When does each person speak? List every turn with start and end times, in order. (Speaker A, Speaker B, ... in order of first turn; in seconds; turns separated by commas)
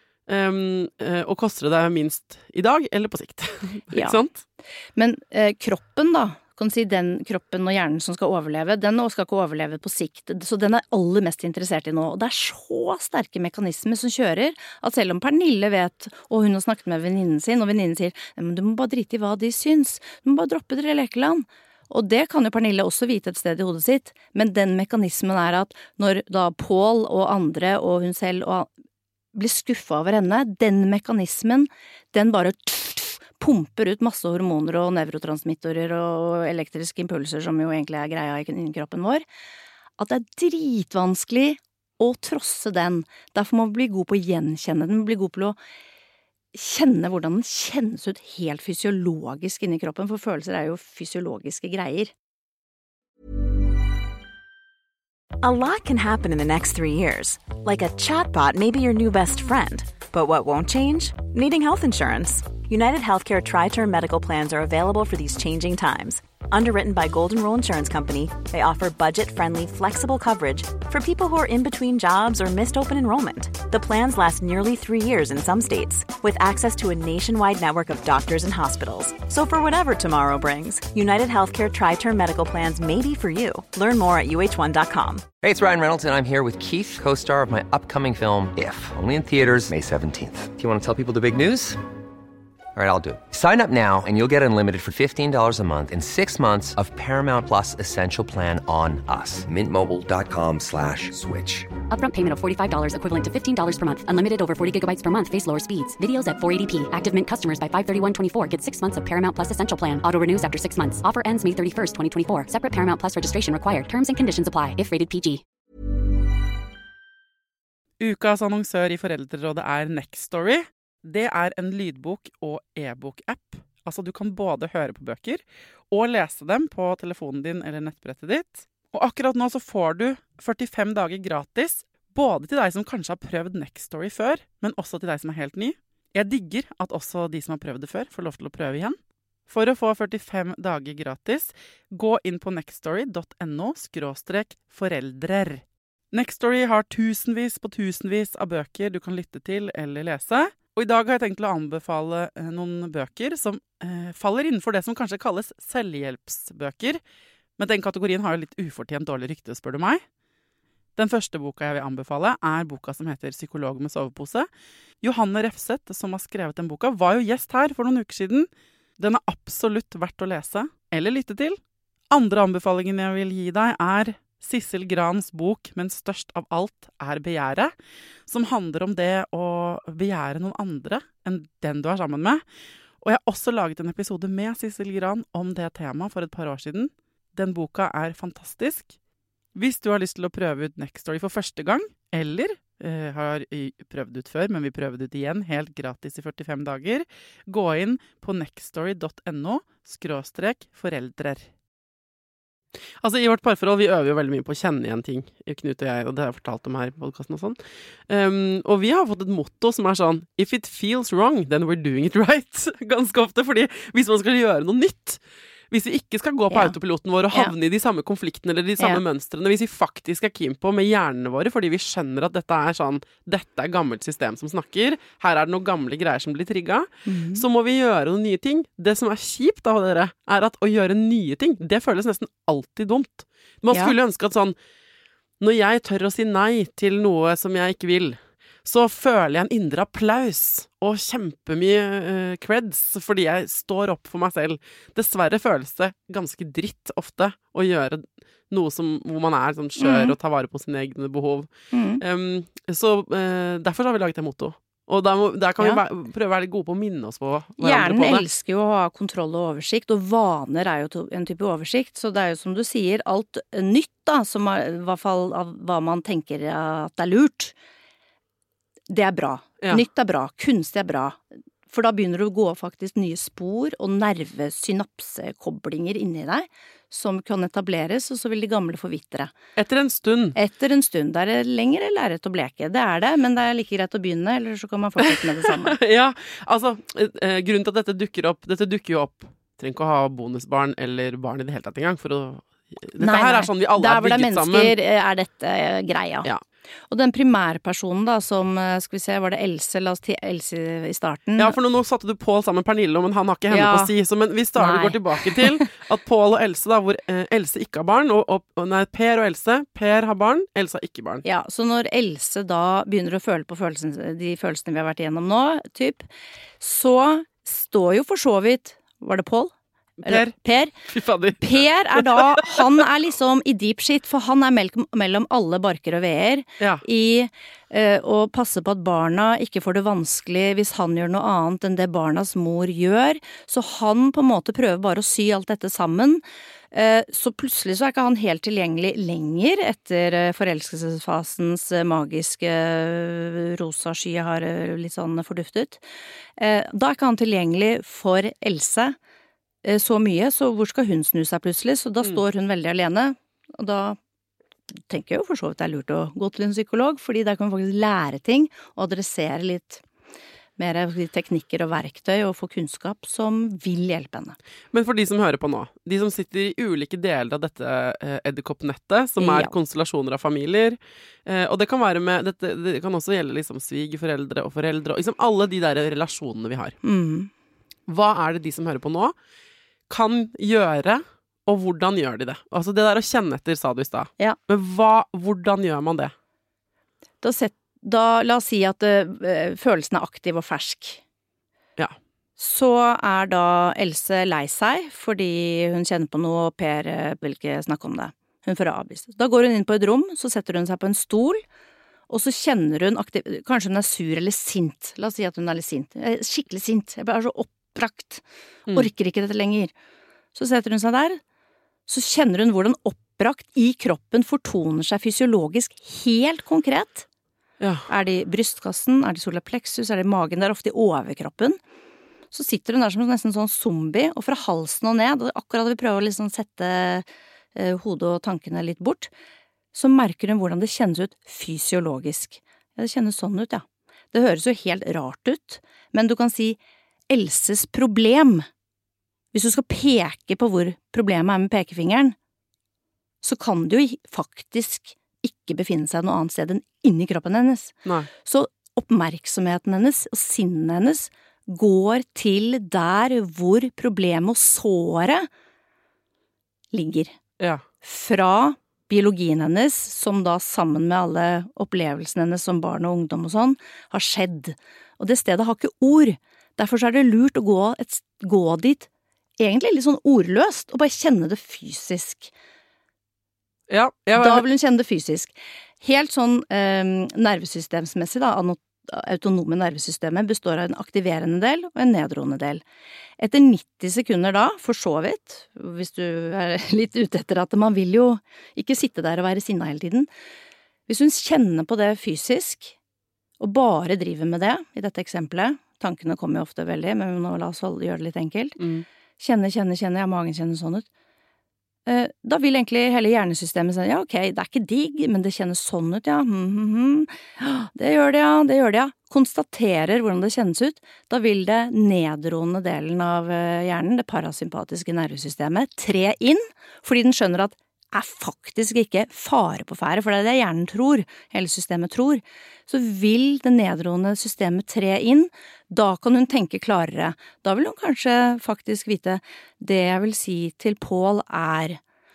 Speaker A: 0.3-4.4, Speaker B: 3.9-4.2, Speaker B: 5.0-28.7, Speaker B: 29.3-39.2, Speaker B: 40.0-45.6, Speaker B: 46.5-52.1, Speaker C: 55.4-85.3, Speaker D: 85.4-91.8, Speaker D: 92.8-101.8, Speaker E: 101.9-115.4, Speaker A: 118.0-157.0, Speaker A: 157.6-160.0, Speaker A: 161.0-164.5, Speaker A: 165.0-177.7, Speaker A: 178.3-182.4, Speaker A: 183.0-188.9, Speaker A: 189.6-201.5, Speaker A: 203.0-207.6, Speaker A: 208.1-234.6, Speaker B: 216.5-216.8, Speaker B: 227.1-227.4, Speaker A: 235.4-258.3, Speaker B: 249.8-250.2, Speaker B: 251.7-252.0, Speaker B: 257.6-267.6, Speaker B: 268.9-279.3, Speaker A: 279.6-280.4, Speaker B: 280.4-285.8, Speaker A: 285.0-294.8, Speaker B: 293.0-296.3, Speaker B: 296.9-301.6, Speaker A: 301.4-311.2, Speaker B: 303.5-303.9, Speaker B: 304.6-305.7, Speaker B: 311.2-316.1, Speaker B: 316.6-319.5, Speaker A: 320.0-322.6, Speaker B: 320.1-320.7, Speaker B: 321.4-345.9, Speaker A: 326.6-326.8, Speaker B: 346.4-349.0, Speaker B: 349.6-354.0, Speaker B: 354.9-359.8, Speaker B: 360.6-364.4, Speaker A: 364.7-376.8, Speaker B: 369.2-369.5, Speaker B: 376.8-377.3, Speaker A: 377.9-379.1, Speaker A: 379.9-386.1, Speaker B: 387.2-391.0, Speaker B: 392.4-401.4, Speaker B: 402.1-409.7, Speaker B: 410.4-411.2, Speaker B: 411.9-417.1, Speaker A: 417.6-417.9, Speaker B: 417.9-421.6, Speaker B: 422.3-429.1, Speaker B: 429.7-436.6, Speaker B: 437.1-438.5, Speaker B: 439.3-442.1, Speaker B: 443.2-455.3, Speaker A: 447.9-448.1, Speaker B: 456.7-457.1, Speaker A: 457.4-457.6, Speaker B: 457.8-468.9, Speaker B: 469.4-472.3, Speaker A: 473.7-474.4, Speaker B: 474.1-482.6, Speaker B: 483.2-490.1, Speaker B: 490.9-492.8, Speaker B: 493.4-498.6, Speaker A: 498.6-498.9, Speaker B: 499.2-500.9, Speaker B: 501.9-531.8